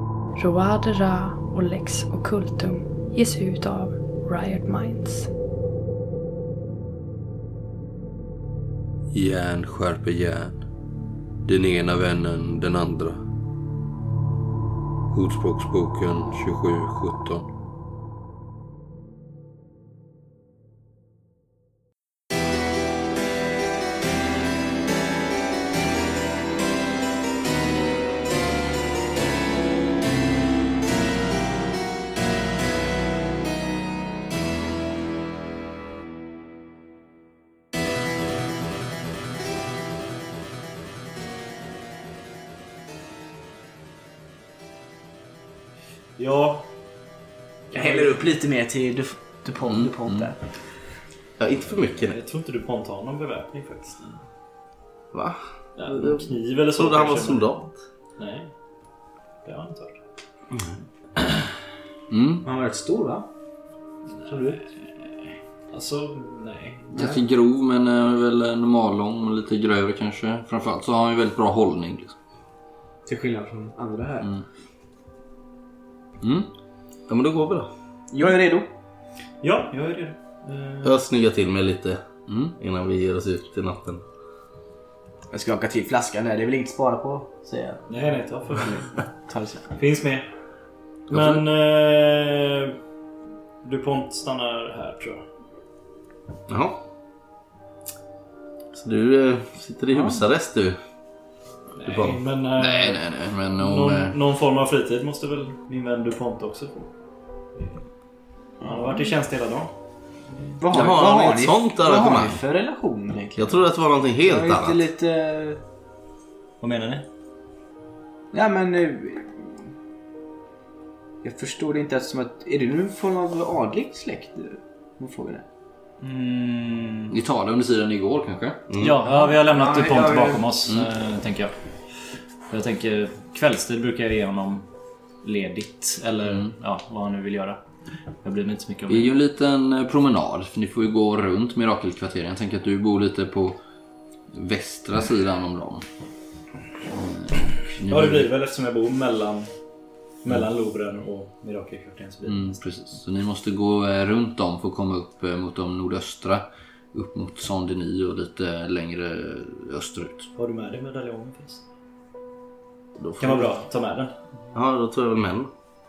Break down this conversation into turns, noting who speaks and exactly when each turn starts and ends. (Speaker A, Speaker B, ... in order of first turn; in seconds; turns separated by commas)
Speaker A: 0.3-5.3, Speaker B: 9.1-10.6, Speaker B: 11.4-13.2, Speaker B: 15.1-17.5, Speaker C: 46.2-46.7, Speaker C: 47.7-48.1, Speaker D: 47.7-50.4, Speaker B: 49.7-50.3, Speaker E: 51.4-52.1, Speaker C: 52.0-54.2, Speaker E: 55.1-57.7, Speaker C: 55.8-57.6, Speaker C: 58.2-58.5, Speaker C: 59.4-60.0, Speaker B: 62.1-62.4, Speaker D: 62.4-63.3, Speaker C: 64.2-64.7, Speaker D: 64.3-64.5, Speaker C: 65.7-67.1, Speaker B: 66.9-72.1, Speaker D: 73.0-74.3, Speaker B: 76.2-76.5, Speaker E: 77.1-77.7, Speaker D: 78.1-78.7, Speaker C: 79.4-81.0, Speaker E: 80.8-82.0, Speaker B: 82.3-82.5, Speaker E: 82.6-84.0, Speaker D: 85.3-87.8, Speaker C: 87.9-88.8, Speaker D: 88.7-89.7, Speaker C: 89.7-90.2, Speaker C: 91.1-92.8, Speaker E: 91.1-91.4, Speaker C: 93.6-95.2, Speaker E: 96.5-96.8, Speaker E: 98.7-100.8, Speaker C: 101.8-103.0, Speaker E: 101.8-102.2, Speaker B: 102.6-104.2, Speaker C: 103.6-106.9, Speaker D: 108.6-109.1, Speaker C: 108.6-109.7, Speaker D: 110.6-113.6, Speaker E: 110.7-112.4, Speaker E: 113.4-114.8, Speaker D: 114.2-115.6, Speaker C: 116.6-117.0, Speaker D: 118.3-119.5, Speaker D: 121.2-125.4, Speaker C: 126.0-127.1, Speaker B: 127.1-128.6, Speaker E: 128.7-129.0, Speaker C: 128.8-131.5, Speaker D: 129.2-130.4, Speaker C: 132.5-134.6, Speaker C: 135.2-137.6, Speaker C: 138.2-139.1, Speaker B: 138.9-143.6, Speaker B: 144.3-145.8, Speaker B: 146.9-148.3, Speaker C: 147.8-149.5, Speaker C: 150.2-152.6, Speaker B: 152.2-160.3, Speaker C: 160.3-161.6, Speaker E: 163.0-163.5, Speaker C: 163.2-164.1, Speaker E: 164.5-165.5